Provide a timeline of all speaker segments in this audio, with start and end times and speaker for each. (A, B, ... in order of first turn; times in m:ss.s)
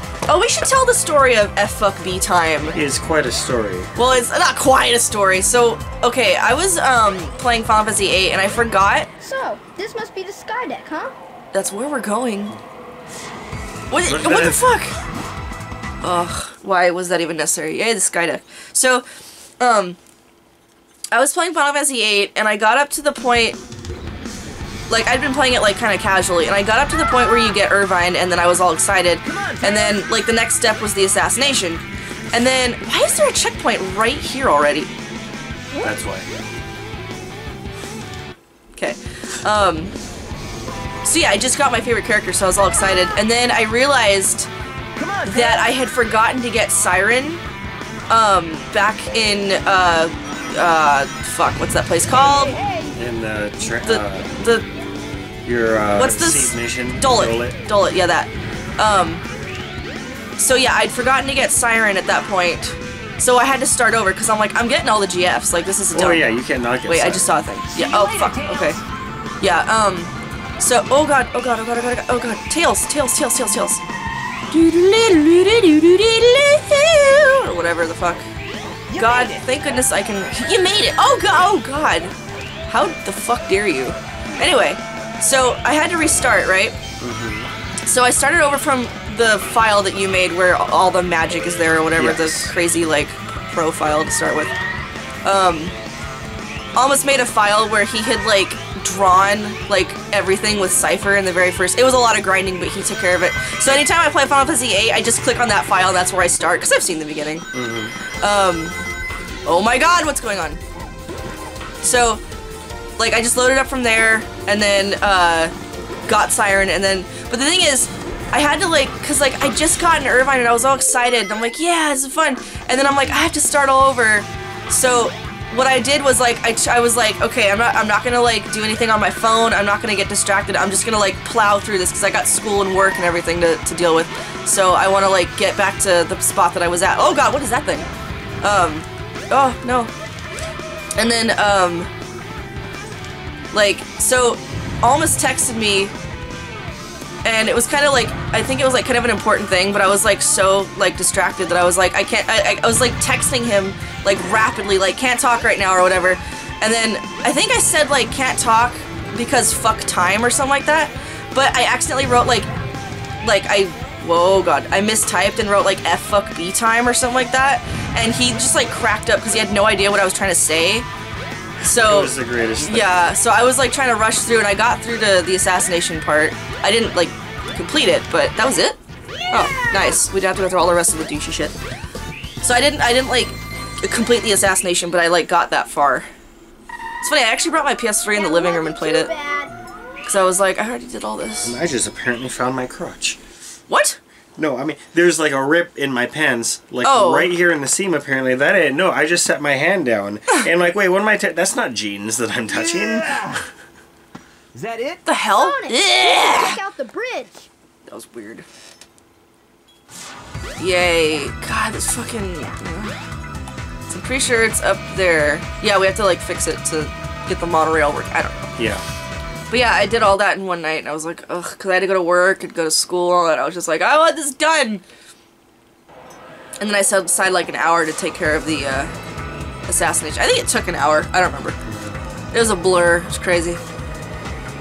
0:00.3-0:02.8 A
0:02.7-0:03.9 B
0:04.0-0:09.1 A
0:09.2-0:11.1 C
0:11.5-0:12.6 A
0:13.9-0:15.0 A
0:14.0-0:14.7 B
0:16.0-0:19.1 A
0:19.6-0:20.0 A
0:21.1-0:23.6 A
0:24.9-0:34.9 A
0:29.2-0:30.0 D
0:35.8-0:36.3 B
0:38.8-0:39.9 A
0:41.0-0:44.5 A
0:45.0-0:45.7 D
0:45.3-0:47.4 A
0:48.1-0:52.5 A
0:52.1-0:53.0 D
0:53.0-0:54.3 B
0:53.8-0:54.7 A
0:55.4-0:57.6 B
0:56.0-0:59.2 A
1:00.4-1:06.3 A
1:05.9-1:07.4 B
1:06.8-1:08.8 A
1:07.7-1:08.8 D
1:09.4-1:13.8 A
1:14.5-1:18.3 A
1:18.9-1:19.5 D
1:18.9-1:22.1 A
1:22.7-1:26.8 A
1:27.0-1:27.5 B
1:27.8-1:34.5 A
1:32.0-1:32.5 B
1:35.2-1:35.8 A
1:36.8-1:47.5 A
1:47.5-1:48.0 B
1:48.2-1:48.8 A
1:49.4-1:50.6 A
1:51.8-1:52.2 A
1:53.0-1:55.5 A
1:56.1-2:17.9 A
2:18.4-2:19.9 A
2:21.0-2:21.9 A
2:23.5-2:25.9 A
2:27.2-2:42.5 A
2:43.2-2:50.9 A
2:51.6-2:58.8 A
2:51.7-2:53.0 B
2:59.3-3:01.6 A
3:02.4-3:06.1 A
3:07.0-3:09.1 A
3:08.1-3:09.6 C
3:10.1-3:11.6 A
3:11.4-3:13.2 B
3:13.7-3:14.0 A
3:14.4-3:23.3 B
3:16.8-3:17.3 A
3:22.5-3:23.4 D
3:24.5-3:25.0 D
3:25.1-3:26.6 A
3:25.4-3:27.5 C
3:27.9-3:28.5 A
3:30.6-3:33.0 A
3:33.9-3:38.5 A
3:38.6-3:38.8 B
3:39.5-3:44.8 A
3:46.6-3:48.9 A
3:49.7-3:51.6 A
3:51.6-3:52.0 B
3:52.3-3:53.6 A